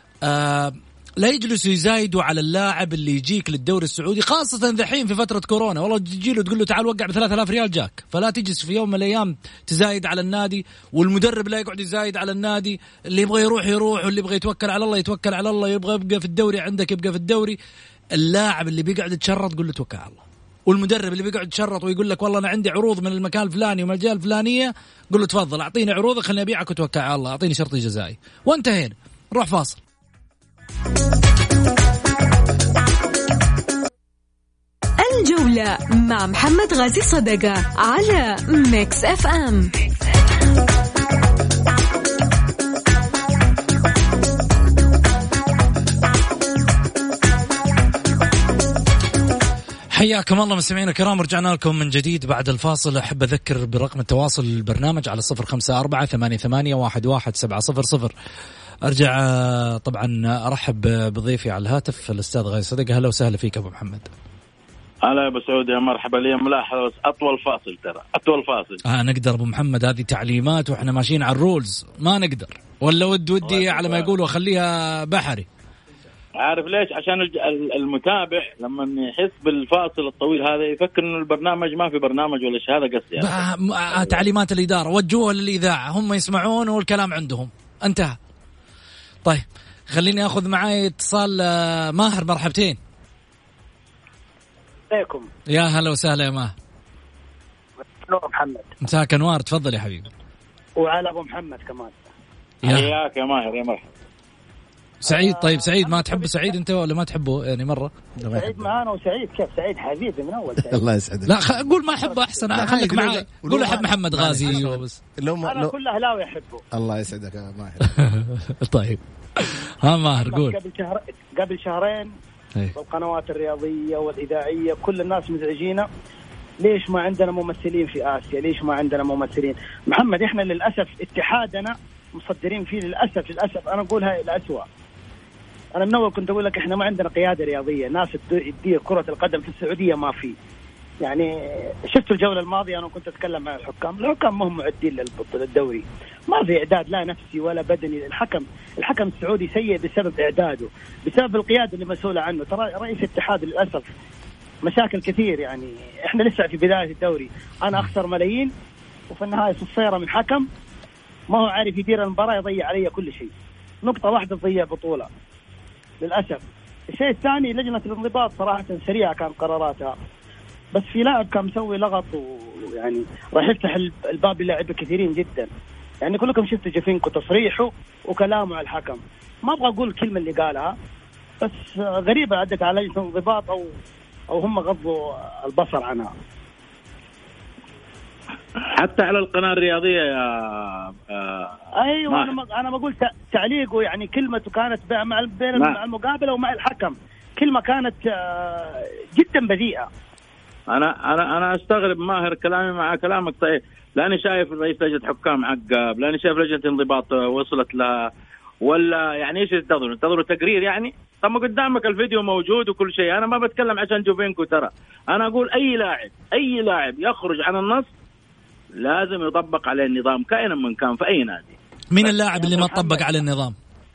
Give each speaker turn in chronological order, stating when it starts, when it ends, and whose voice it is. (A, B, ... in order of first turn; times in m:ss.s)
0:00.2-0:17.6 A
0:18.2-0:29.8 A
0:35.0-0:39.7 B
0:49.9-0:58.1 A
0:58.8-1:04.1 A
1:05.0-1:08.8 C
1:08.9-1:15.5 A
1:13.4-1:14.1 C
1:16.4-1:23.5 C
1:23.2-1:28.2 A
1:29.2-1:32.8 A
1:34.9-1:35.3 D
1:35.5-1:36.5 A
1:38.0-1:38.7 D
1:38.8-1:40.1 A
1:40.8-1:42.1 D
1:42.6-1:42.9 A
1:42.6-1:43.9 C
1:45.0-1:47.9 A
1:45.0-1:46.6 D
1:48.2-1:48.7 E
1:48.3-1:50.8 D
1:50.6-1:51.6 E
1:51.3-1:55.0 A
1:52.0-1:52.6 D
1:52.5-1:55.7 E
1:55.5-1:56.6 D
1:56.7-1:57.9 E
1:57.8-2:00.6 A
2:00.1-2:02.1 D
2:02.8-2:05.9 D
2:06.6-2:14.7 D
2:15.8-2:20.4 D
2:21.0-2:21.3 D
2:21.9-2:33.9 D
2:34.6-2:38.5 D
2:39.1-2:40.5 D
2:41.3-2:43.3 D
2:43.8-2:45.1 D
2:46.0-2:46.4 D
2:46.9-2:50.0 D
2:50.7-2:55.5 D
2:56.0-3:00.7 D
3:01.4-3:03.7 D
3:04.3-3:06.1 D
3:08.8-3:11.5 C
3:11.8-3:19.9 D
3:12.1-3:12.4 C
3:20.7-3:28.1 C
3:28.6-3:37.9 C
3:38.8-3:43.0 C
3:41.9-3:43.6 A